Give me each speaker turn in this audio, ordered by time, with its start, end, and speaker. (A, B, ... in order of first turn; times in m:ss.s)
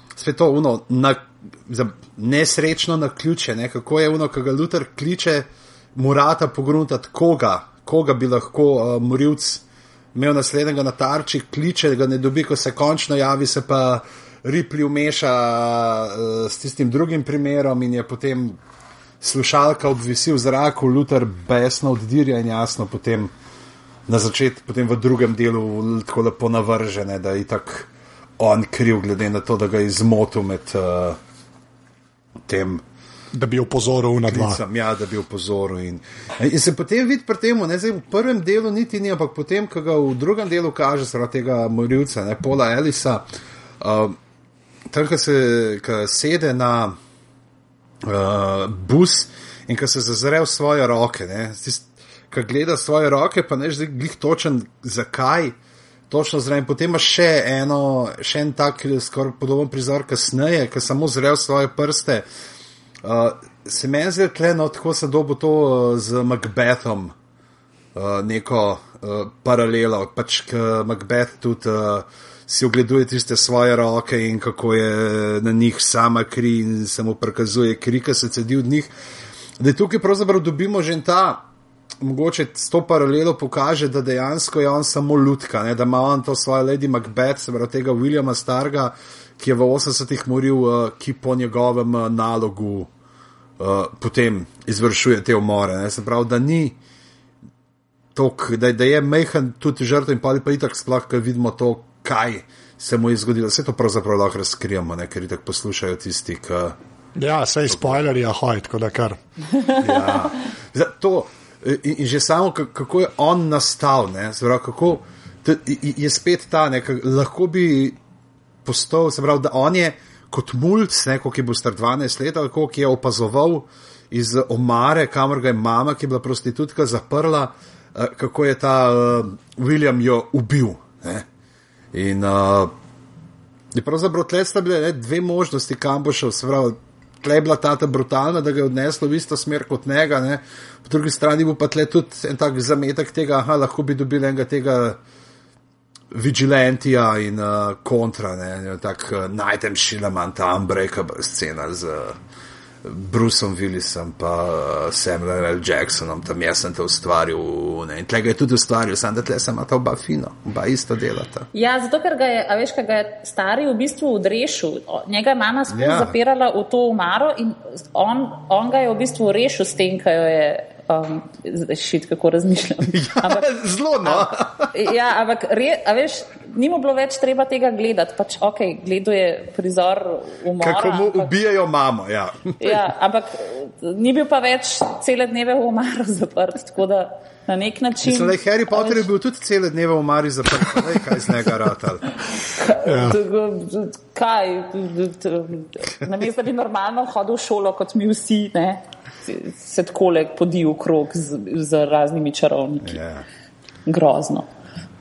0:00.1-0:09.6 A
0:10.1-0:18.6 A
0:19.2-0:23.3 A
0:24.1-0:31.2 A
0:32.5-0:32.8 A
0:33.3-0:34.6 B
0:34.3-0:43.2 A
0:43.8-0:44.2 A
0:44.9-0:47.0 A
0:48.0-0:55.5 A
0:56.1-1:02.2 A
1:03.0-1:07.1 A
1:07.9-1:18.9 A
1:19.6-1:21.4 A
1:22.0-1:32.9 A
1:33.6-1:36.8 A
1:38.1-1:46.8 A
1:47.2-1:49.2 B
1:47.8-1:48.0 A
1:49.7-1:58.0 A
1:58.6-2:11.2 A
2:11.9-2:12.7 A
2:13.7-2:25.0 A
2:26.1-2:32.2 A
2:32.8-2:41.5 A
2:41.5-2:53.5 C
2:45.7-2:46.2 A
2:52.9-2:54.7 A
2:54.0-3:01.3 C
3:00.6-3:02.8 A
3:02.6-3:09.1 C
3:08.0-3:12.1 A
3:12.4-3:23.0 C
3:12.8-3:13.2 B
3:22.8-3:23.2 A
3:23.8-3:24.5 C